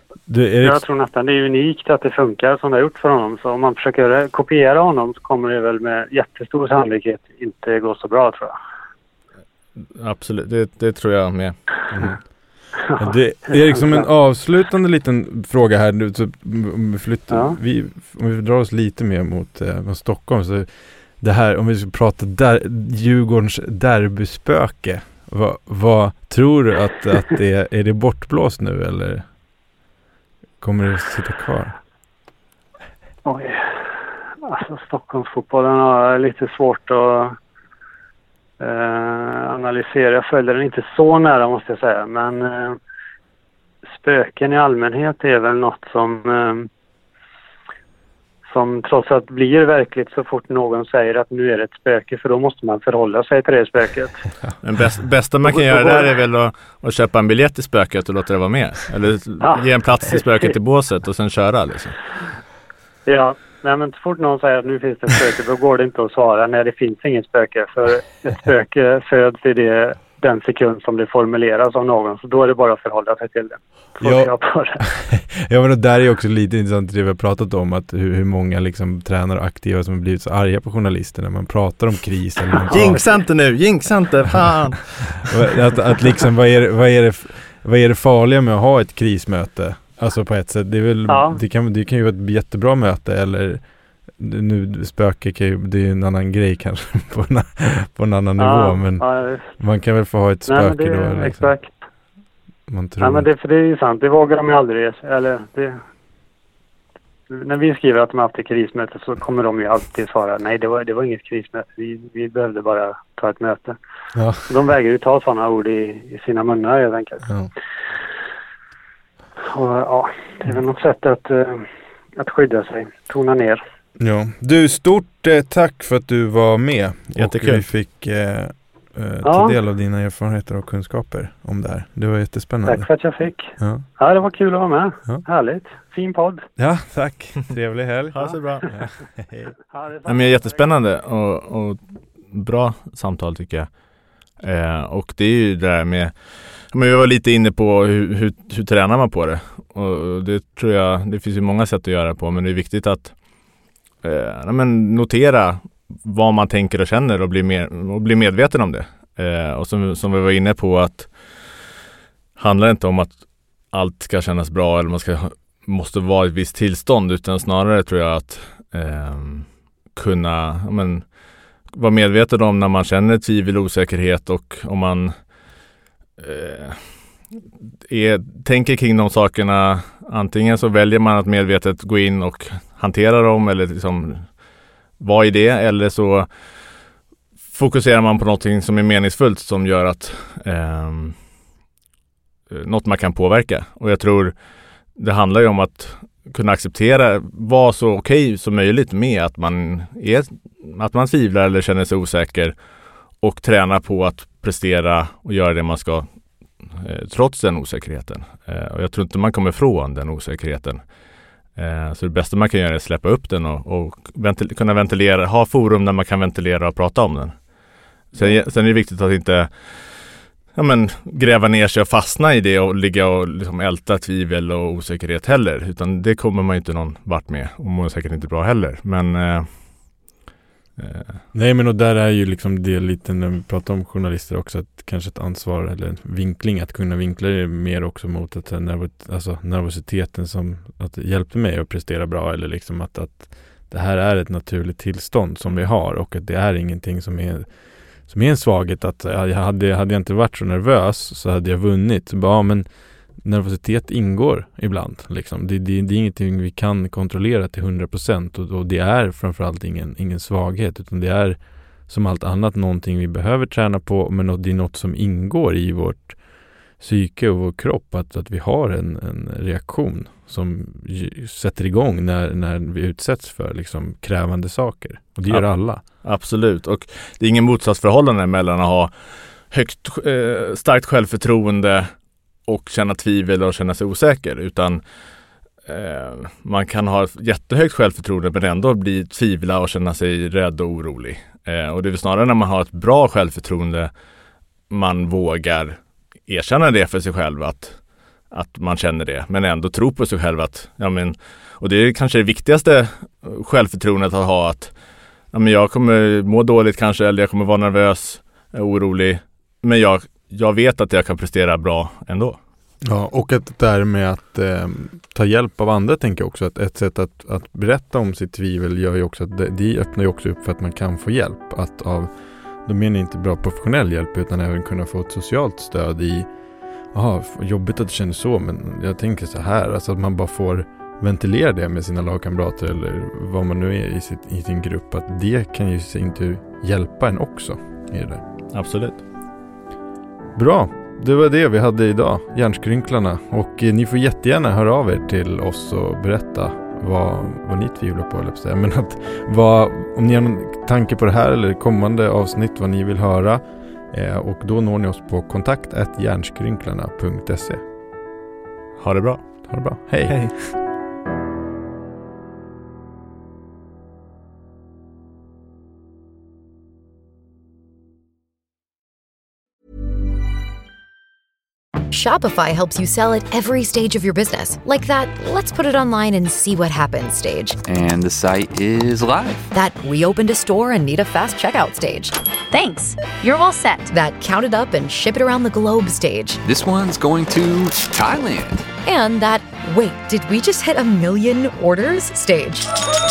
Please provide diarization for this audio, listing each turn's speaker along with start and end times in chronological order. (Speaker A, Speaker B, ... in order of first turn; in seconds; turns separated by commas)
Speaker A: 0.3-0.8, Speaker B: 0.6-8.6, Speaker C: 9.8-11.6, Speaker A: 11.9-29.3, Speaker B: 12.9-14.1, Speaker B: 17.3-17.6, Speaker A: 30.6-31.8, Speaker B: 33.2-33.9, Speaker B: 34.4-37.4, Speaker B: 38.6-42.8, Speaker B: 43.9-46.7, Speaker B: 48.5-54.3, Speaker C: 54.6-62.0, Speaker B: 55.5-56.1, Speaker B: 59.4-60.5, Speaker B: 63.1-74.8, Speaker A: 74.0-83.0, Speaker C: 82.7-85.4, Speaker A: 85.2-93.6, Speaker B: 91.1-91.4, Speaker A: 94.2-101.5, Speaker B: 98.4-99.5, Speaker B: 100.5-101.8, Speaker A: 102.7-103.3, Speaker B: 103.0-105.8, Speaker B: 107.3-113.8, Speaker A: 114.2-114.5, Speaker B: 114.5-117.3, Speaker B: 119.4-123.6, Speaker A: 124.0-132.9, Speaker C: 127.2-127.6, Speaker B: 129.2-129.6, Speaker B: 132.7-136.5, Speaker A: 133.6-133.8, Speaker A: 136.6-139.5, Speaker C: 138.1-138.7, Speaker B: 139.7-140.7, Speaker C: 140.1-143.8, Speaker C: 144.4-153.2, Speaker C: 154.0-161.5, Speaker C: 162.4-171.1, Speaker C: 171.7-175.2, Speaker C: 176.2-177.1, Speaker C: 177.9-184.4, Speaker C: 185.0-186.5, Speaker C: 187.5-191.2, Speaker C: 192.5-194.4, Speaker C: 194.9-202.6, Speaker C: 203.2-206.1, Speaker C: 206.6-210.8, Speaker C: 211.6-217.4, Speaker C: 218.1-229.6, Speaker C: 230.8-231.2, Speaker A: 231.3-266.2, Speaker A: 266.7-275.8, Speaker C: 275.3-281.9, Speaker C: 282.4-284.8, Speaker C: 285.6-293.9, Speaker C: 294.7-297.8, Speaker C: 298.3-304.7, Speaker C: 305.3-312.4, Speaker A: 312.8-326.3, Speaker A: 326.9-338.2, Speaker C: 338.5-339.0, Speaker A: 340.4-357.6, Speaker C: 358.8-360.6, Speaker A: 359.5-360.2, Speaker D: 371.9-377.6, Speaker E: 377.6-379.4, Speaker D: 379.5-386.4, Speaker E: 386.4-388.7, Speaker D: 388.8-392.7